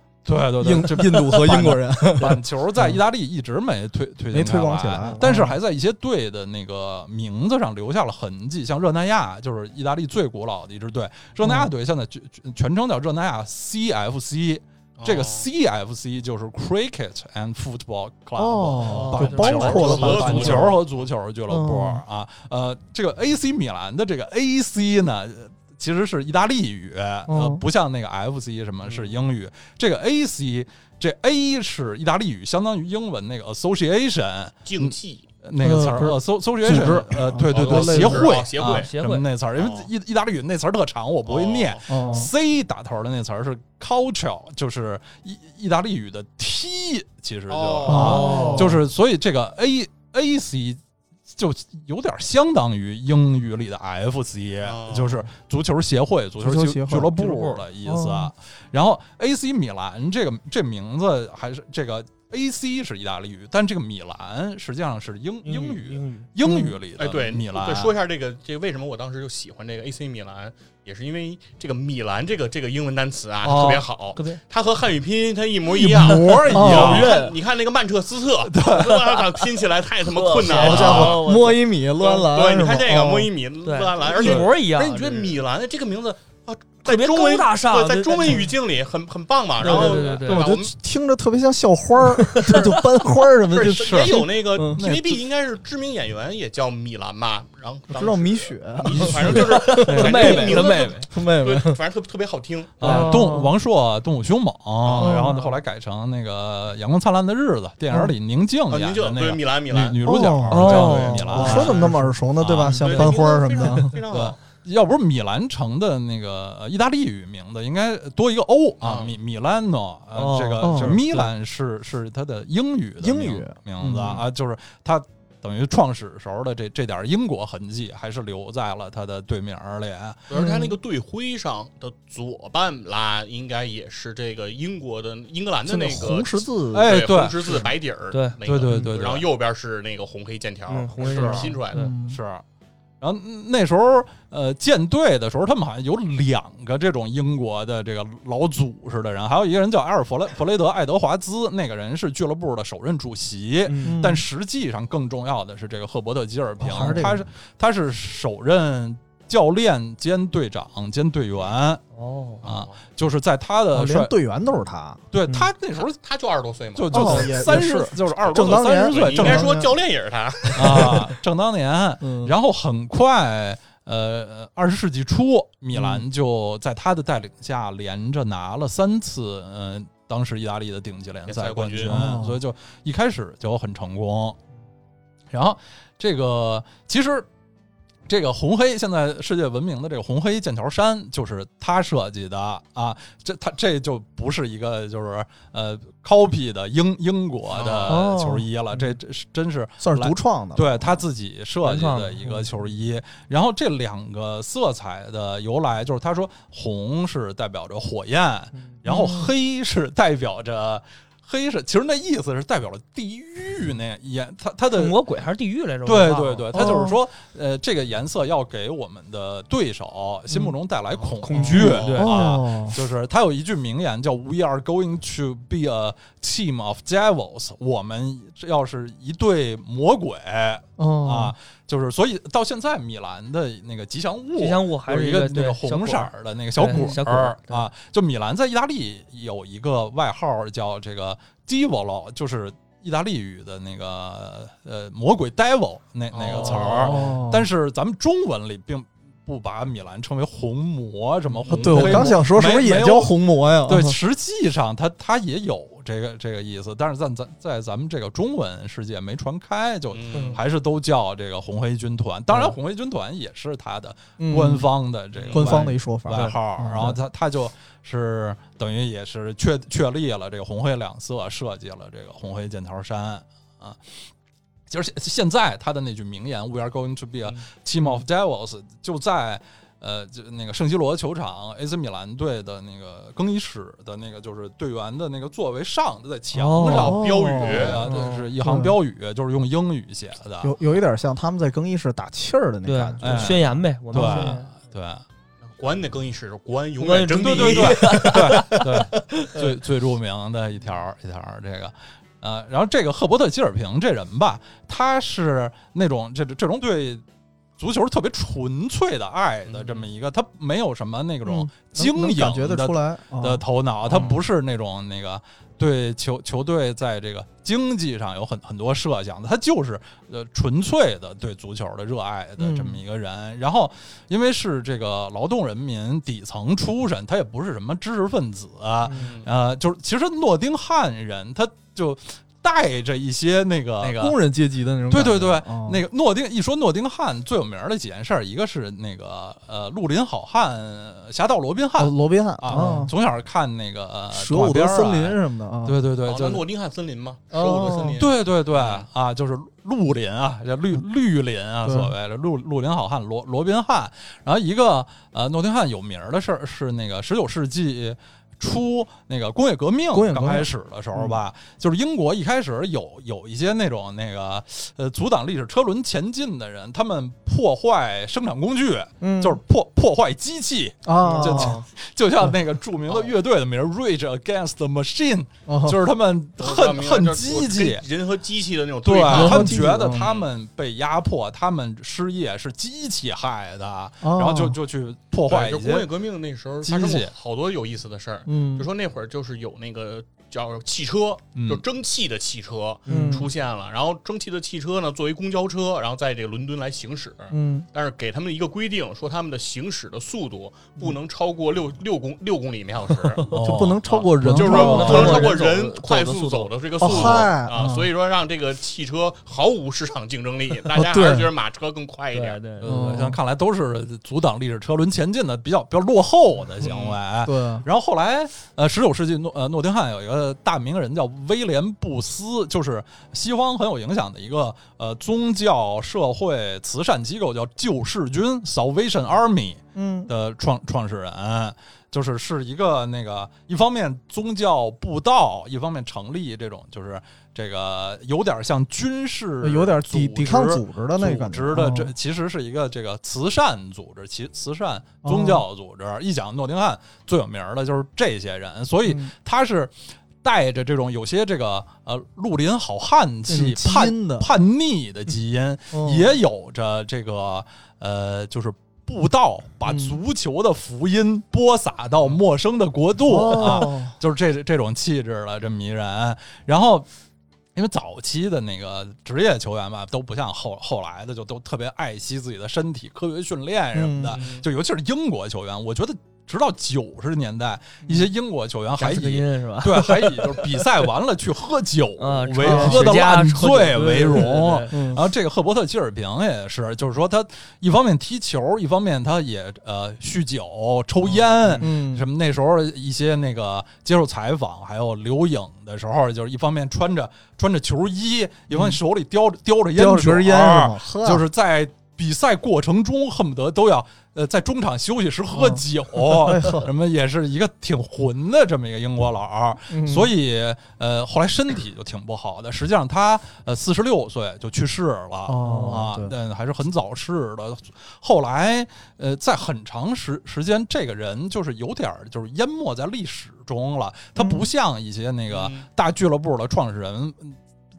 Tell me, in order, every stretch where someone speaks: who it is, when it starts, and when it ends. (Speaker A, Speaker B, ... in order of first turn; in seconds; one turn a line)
Speaker A: 0.2-67.9
Speaker B: 0.6-3.0
Speaker B: 4.3-5.6
Speaker B: 11.4-11.7
Speaker C: 15.0-15.5
Speaker B: 18.4-20.8
Speaker D: 18.8-20.7
Speaker C: 19.1-20.8
Speaker B: 21.5-22.0
Speaker B: 27.3-27.6
Speaker C: 28.9-29.1
Speaker C: 34.6-35.3
Speaker B: 35.6-38.4
Speaker C: 36.7-38.9
Speaker D: 38.6-39.2
Speaker C: 39.6-39.9
Speaker C: 41.3-42.0
Speaker B: 41.9-42.3
Speaker C: 47.5-48.6
Speaker B: 47.9-48.8
Speaker D: 47.9-48.8
Speaker C: 54.6-55.3
Speaker B: 56.4-58.3
Speaker D: 65.4-66.3
Speaker B: 66.4-66.8
Speaker C: 67.0-81.2
Speaker A: 73.4-73.8
Speaker D: 74.1-74.4
Speaker A: 75.7-77.2
Speaker D: 76.1-77.4
Speaker B: 76.5-77.1
Speaker A: 78.4-79.0
Speaker D: 78.7-81.6
Speaker B: 80.5-83.3
Speaker A: 80.5-81.2
Speaker C: 82.0-90.7
Speaker D: 83.6-85.4
Speaker D: 86.8-88.5
Speaker D: 89.6-90.4
Speaker B: 89.6-94.8
Speaker D: 92.0-92.8
Speaker C: 93.5-103.1
Speaker A: 93.8-95.2
Speaker B: 97.9-101.8
Speaker D: 99.0-101.1
Speaker A: 99.9-100.3
Speaker A: 102.8-112.8
Speaker D: 102.8-103.5
Speaker B: 102.8-103.5
Speaker C: 104.8-105.2
Speaker B: 105.0-105.5
Speaker C: 108.7-110.0
Speaker B: 110.0-114.0
Speaker D: 110.5-112.0
Speaker C: 110.8-112.0
Speaker C: 112.6-114.4
Speaker D: 112.6-113.1
Speaker A: 114.1-130.2
Speaker C: 118.8-119.1
Speaker D: 120.1-121.2
Speaker B: 120.6-121.3
Speaker B: 123.0-124.2
Speaker C: 130.3-141.9
Speaker B: 130.3-130.7
Speaker B: 135.7-136.9
Speaker A: 136.7-137.6
Speaker D: 138.1-138.8
Speaker A: 138.4-139.3
Speaker D: 140.7-141.9
Speaker A: 141.1-141.5
Speaker B: 141.7-142.2
Speaker A: 142.1-142.4
Speaker A: 143.0-161.8
Speaker D: 153.7-154.0
Speaker B: 153.8-154.2
Speaker B: 156.6-157.2
Speaker D: 156.8-157.1
Speaker D: 161.9-162.4
Speaker C: 162.4-162.8
Speaker A: 162.4-164.1
Speaker B: 163.7-165.0
Speaker A: 165.1-165.9
Speaker C: 165.8-167.4
Speaker A: 166.8-169.5
Speaker B: 166.9-169.7
Speaker C: 168.3-171.1
Speaker A: 170.5-184.4
Speaker B: 170.6-171.0
Speaker B: 172.0-172.3
Speaker B: 175.7-176.0
Speaker C: 181.3-182.0
Speaker B: 181.8-182.4
Speaker A: 185.3-187.3
Speaker A: 188.1-214.9
Speaker C: 197.5-198.0
Speaker D: 197.9-198.9
Speaker B: 199.8-201.0
Speaker D: 201.6-202.5
Speaker B: 208.8-209.3
Speaker D: 214.8-216.8
Speaker A: 215.8-274.0
Speaker B: 216.5-217.0
Speaker C: 221.1-222.1
Speaker D: 221.2-222.2
Speaker B: 221.4-222.8
Speaker B: 230.8-231.3
Speaker D: 234.4-237.7
Speaker B: 236.7-236.9
Speaker C: 246.1-247.1
Speaker D: 246.3-247.1
Speaker B: 246.8-247.5
Speaker C: 251.4-252.1
Speaker B: 251.5-254.0
Speaker C: 259.9-260.4
Speaker B: 264.2-264.7
Speaker C: 265.1-265.6
Speaker B: 265.3-267.0
Speaker D: 265.6-266.4
Speaker A: 274.7-290.6
Speaker D: 286.3-287.1
Speaker C: 286.6-287.9
Speaker B: 286.7-287.9
Speaker D: 287.8-288.3
Speaker B: 288.4-288.8
Speaker B: 290.4-294.4
Speaker D: 292.6-294.5
Speaker A: 293.0-295.0
Speaker C: 295.5-298.5
Speaker D: 296.8-299.5
Speaker A: 297.2-307.0
Speaker A: 307.6-334.2
Speaker C: 309.4-309.9
Speaker B: 311.2-314.1
Speaker B: 322.4-322.8
Speaker D: 328.8-329.1
Speaker C: 328.9-329.3
Speaker B: 333.8-335.8
Speaker A: 334.9-346.4
Speaker B: 341.8-342.9
Speaker D: 342.5-342.8
Speaker B: 344.1-345.8
Speaker C: 346.0-348.9
Speaker B: 347.3-348.0
Speaker A: 348.0-377.8
Speaker B: 351.6-351.9
Speaker B: 359.9-361.2
Speaker B: 369.0-369.4
Speaker B: 370.9-371.6
Speaker D: 371.0-371.7
Speaker B: 375.4-375.8
Speaker C: 376.4-380.3
Speaker A: 378.8-385.9
Speaker B: 379.1-380.1
Speaker B: 384.0-384.6
Speaker C: 385.3-403.3
Speaker A: 386.6-387.1
Speaker B: 388.3-388.7
Speaker A: 391.4-391.6
Speaker D: 392.9-393.3
Speaker B: 392.9-393.3
Speaker B: 397.3-397.7
Speaker A: 403.3-405.1
Speaker B: 403.3-405.4
Speaker C: 403.9-412.4
Speaker D: 404.3-406.5
Speaker B: 406.8-407.9
Speaker B: 410.8-411.3
Speaker D: 412.1-413.0
Speaker A: 412.6-466.9
Speaker B: 412.6-413.2
Speaker C: 416.6-417.0
Speaker B: 417.2-417.6
Speaker B: 429.8-430.1
Speaker B: 439.4-441.9
Speaker B: 445.0-445.4
Speaker B: 448.9-449.1
Speaker B: 453.3-454.3
Speaker B: 455.7-456.1
Speaker B: 459.6-460.0
Speaker B: 463.1-463.9
Speaker A: 467.6-527.4
Speaker B: 473.7-474.2
Speaker C: 474.1-474.4
Speaker D: 478.8-480.7
Speaker D: 482.0-484.8
Speaker B: 482.4-483.0
Speaker B: 484.1-485.0
Speaker D: 491.4-491.7
Speaker B: 491.6-492.1
Speaker B: 499.8-501.2
Speaker B: 505.3-506.7
Speaker B: 509.7-510.1
Speaker B: 515.3-516.1
Speaker D: 515.4-515.8
Speaker B: 524.2-524.4
Speaker C: 525.3-525.7